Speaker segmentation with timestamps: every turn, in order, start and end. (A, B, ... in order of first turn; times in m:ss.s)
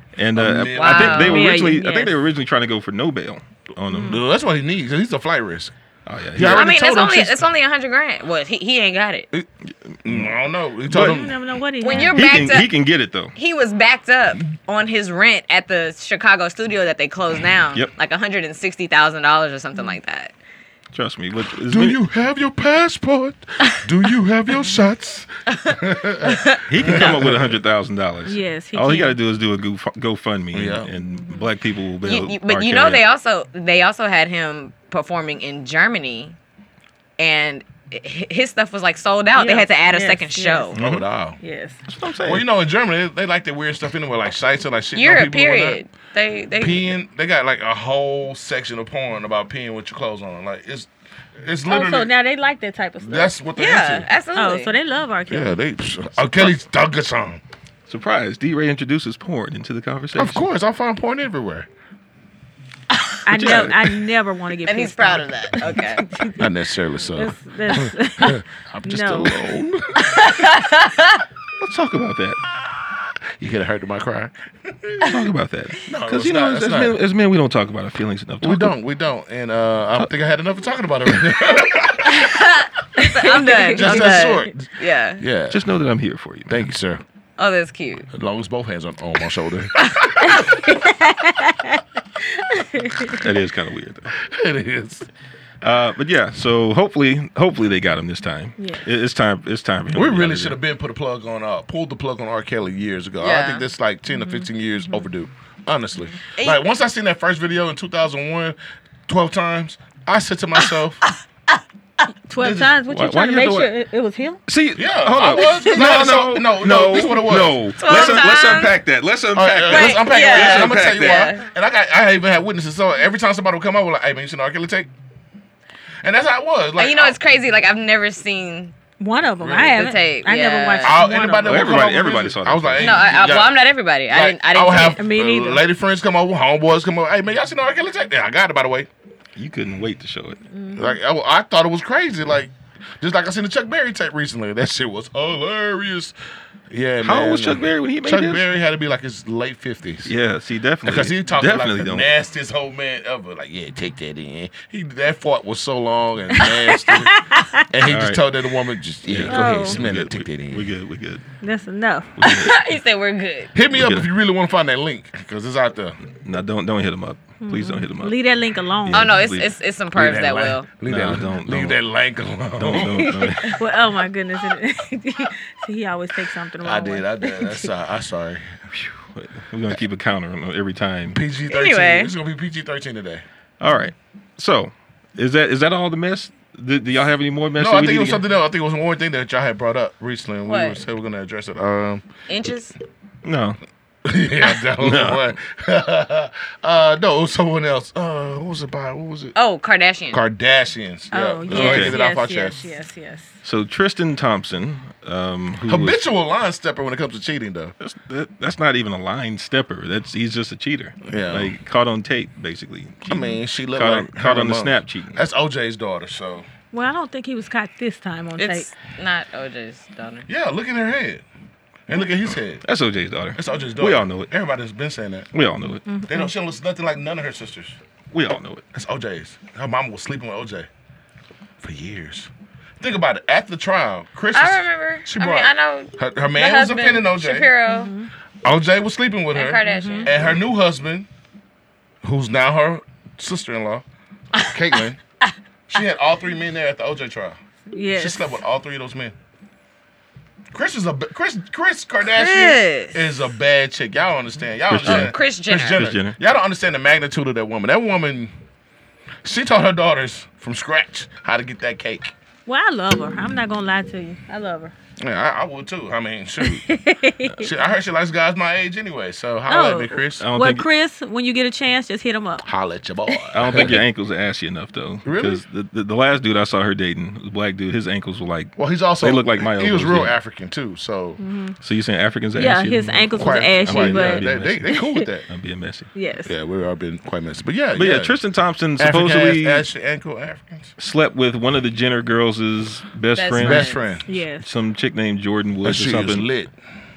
0:00.2-0:04.2 A
0:00.3-0:01.5 B
0:00.7-0:01.6 C
0:01.2-0:02.1 D
0:03.9-0:04.2 D
0:04.0-0:05.7 B
0:06.0-0:06.7 A
0:06.3-0:07.4 B
0:06.4-0:09.3 C
0:09.9-0:10.3 A
0:10.0-0:11.4 B
0:10.9-0:12.2 D
0:11.8-0:12.7 C
0:12.1-0:13.3 A
0:13.3-0:20.3 C
0:20.9-0:22.0 A
0:21.5-0:27.6 B
0:26.2-0:27.2 C
0:26.7-0:33.0 A
0:28.2-0:29.2 D
0:30.5-0:30.9 B
0:32.0-0:36.4 C
0:37.2-0:40.8 C
0:39.4-0:40.7 D
0:40.7-0:41.0 A
0:40.7-0:41.4 B
0:41.4-0:41.8 D
0:41.9-0:42.4 A
0:42.2-0:45.8 B
0:44.9-0:46.9 C
0:46.6-0:50.9 B
0:51.4-0:52.1 B
0:51.7-0:53.4 D
0:53.0-0:54.1 B
0:53.6-0:54.7 C
0:54.3-0:55.5 D
0:55.3-0:57.4 B
0:57.9-1:00.4 A
1:00.1-1:01.7 B
1:03.2-1:06.5 D
1:03.3-1:03.8 A
1:04.6-1:06.1 C
1:06.4-1:10.2 B
1:07.0-1:09.4 D
1:10.0-1:11.2 C
1:11.6-1:12.4 A
1:13.4-1:15.2 B
1:15.0-1:18.7 A
1:15.8-1:17.0 B
1:18.4-1:22.3 B
1:22.2-1:25.2 C
1:23.0-1:24.4 D
1:23.7-1:25.6 B
1:25.5-1:26.7 A
1:26.5-1:27.0 B
1:27.4-1:28.1 C
1:28.1-1:30.4 B
1:30.2-1:33.2 D
1:33.1-1:34.1 A
1:34.2-1:35.1 B
1:35.6-1:40.6 A
1:38.6-1:38.8 D
1:39.9-1:51.0 B
1:43.2-1:43.6 C
1:44.1-1:45.0 D
1:46.4-1:46.6 C
1:52.3-1:54.4 D
1:52.4-1:52.7 B
1:52.9-1:53.7 A
1:54.5-2:01.3 A
1:54.7-1:58.5 B
1:57.8-1:58.8 C
1:59.3-2:04.9 B
1:59.7-2:01.4 C
2:06.0-2:07.2 B
2:06.8-2:08.7 C
2:09.0-2:11.8 D
2:09.4-2:09.8 B
2:09.8-2:11.0 C
2:10.8-2:18.9 B
2:11.4-2:13.1 A
2:12.8-2:15.0 C
2:15.0-2:15.6 D
2:19.4-2:20.4 A
2:20.5-2:21.0 D
2:20.7-2:26.1 B
2:26.7-2:30.1 B
2:27.0-2:28.4 A
2:30.0-2:32.1 A
2:30.8-2:40.7 B
2:36.4-2:37.7 D
2:37.8-2:38.2 A
2:39.1-2:41.2 A
2:39.2-2:39.8 D
2:41.4-2:42.2 D
2:42.2-2:42.6 A
2:42.2-2:43.5 C
2:43.5-2:46.0 B
2:43.7-2:44.1 A
2:46.2-2:48.2 A
2:47.4-2:49.3 D
2:48.8-2:49.5 A
2:48.9-2:50.7 C
2:49.9-2:53.2 B
2:50.8-2:51.8 A
2:52.6-2:53.6 A
2:53.4-2:57.7 D
2:56.6-2:58.6 B
2:58.7-3:01.2 A
3:01.1-3:03.2 B
3:01.5-3:02.1 C
3:03.6-3:08.2 A
3:07.6-3:12.0 B
3:10.5-3:10.8 C
3:12.3-3:12.8 C
3:13.2-3:13.6 A
3:14.0-3:19.3 B
3:14.8-3:15.3 A
3:19.3-3:20.2 C
3:20.1-3:22.7 B
3:21.1-3:23.4 D
3:21.5-3:21.9 A
3:23.4-3:26.0 A
3:25.6-3:27.7 B
3:27.8-3:35.2 A
3:31.0-3:31.5 B
3:33.0-3:36.5 B
3:36.7-3:38.7 D
3:38.4-3:40.3 C
3:40.3-3:41.2 B
3:41.9-3:42.6 B
3:42.6-3:44.3 A
3:43.4-3:45.3 B
3:45.3-3:45.9 A
3:45.8-3:46.3 D
3:46.1-3:47.8 B
3:48.1-3:48.6 A
3:48.7-3:50.7 B
3:51.6-3:57.5 B
3:54.3-3:57.9 C
3:57.7-3:58.1 D
3:58.4-4:01.1 B
3:59.3-4:00.3 C
3:59.6-4:00.1 D
4:02.0-4:03.8 B
4:04.3-4:05.0 B
4:05.7-4:07.4 B
4:07.7-4:08.4 D
4:07.9-4:09.1 B
4:10.5-4:18.3 B
4:12.1-4:13.0 C
4:14.7-4:15.1 A
4:14.8-4:15.8 C
4:15.7-4:16.2 A
4:19.2-4:22.1 B
4:22.4-4:24.7 D
4:25.0-4:26.7 B
4:26.4-4:27.5 D
4:27.4-4:30.3 B
4:29.5-4:32.4 D
4:30.2-4:30.6 A
4:32.4-4:33.8 B
4:33.1-4:33.6 D
4:33.3-4:40.1 A
4:35.0-4:35.4 B
4:38.6-4:41.2 B
4:41.2-4:41.6 D
4:41.6-4:44.8 A
4:42.4-4:45.0 D
4:43.1-4:45.3 B
4:45.3-4:45.9 A
4:45.9-4:46.3 D
4:46.2-4:48.2 B
4:47.7-4:49.6 A
4:48.8-4:50.7 B
4:50.8-4:56.2 A
4:53.1-4:53.8 C
4:53.4-4:54.0 B
4:54.0-4:54.5 D
4:55.6-4:56.5 B